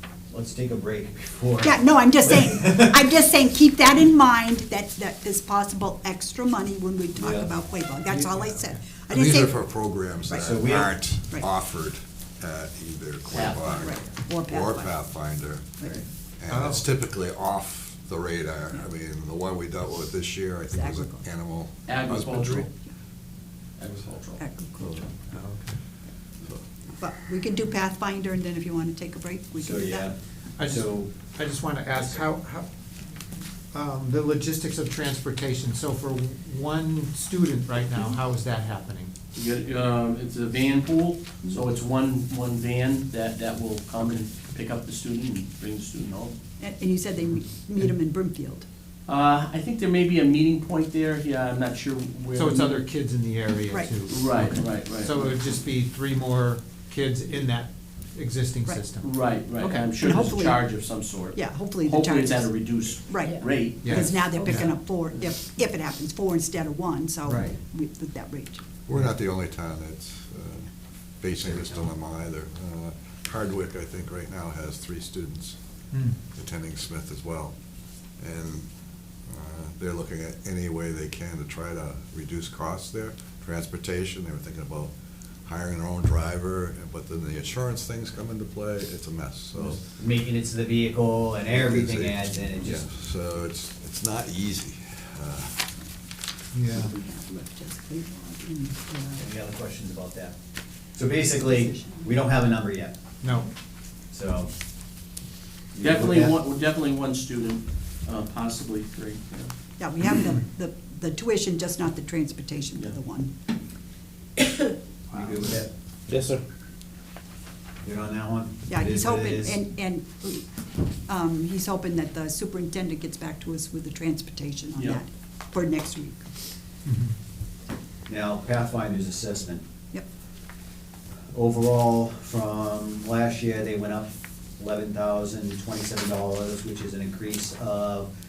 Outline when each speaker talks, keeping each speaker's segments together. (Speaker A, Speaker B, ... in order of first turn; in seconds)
Speaker A: 0.3-3.0, 7.2-7.5, 10.4-10.9, 29.6-31.1, 89.6-92.8, 99.2-100.3, 101.0-103.0, 104.1-104.5, 105.7-106.3, 115.1-115.7, 117.8-119.6, 128.1-129.6, 131.3-138.1
Speaker B: 1.6-9.6, 10.2-10.6, 13.6-15.1, 15.8-16.0, 20.7-21.2, 24.4-25.1, 27.0-30.1, 46.6-48.6, 60.0-68.6, 96.7-99.2, 101.6-102.0, 109.8-113.3, 118.7-120.4, 121.1-126.2
Speaker C: 8.1-8.8, 16.5-16.8, 25.3-25.8, 30.6-32.7, 33.7-39.1, 52.4-59.1, 59.6-59.9, 63.8-64.7, 67.2-67.6, 75.9-76.2, 96.5-97.0, 103.2-103.5, 126.9-127.1
Speaker D: 9.2-15.8, 16.4-22.7, 68.9-75.6, 76.3-77.5, 78.2-78.7, 79.3-84.9, 85.5-89.8, 91.5-95.7
Speaker E: 13.3-13.8, 21.9-22.7, 23.8-24.4, 39.3-46.4, 49.1-52.9, 54.1-55.2, 59.0-64.2, 105.8-109.5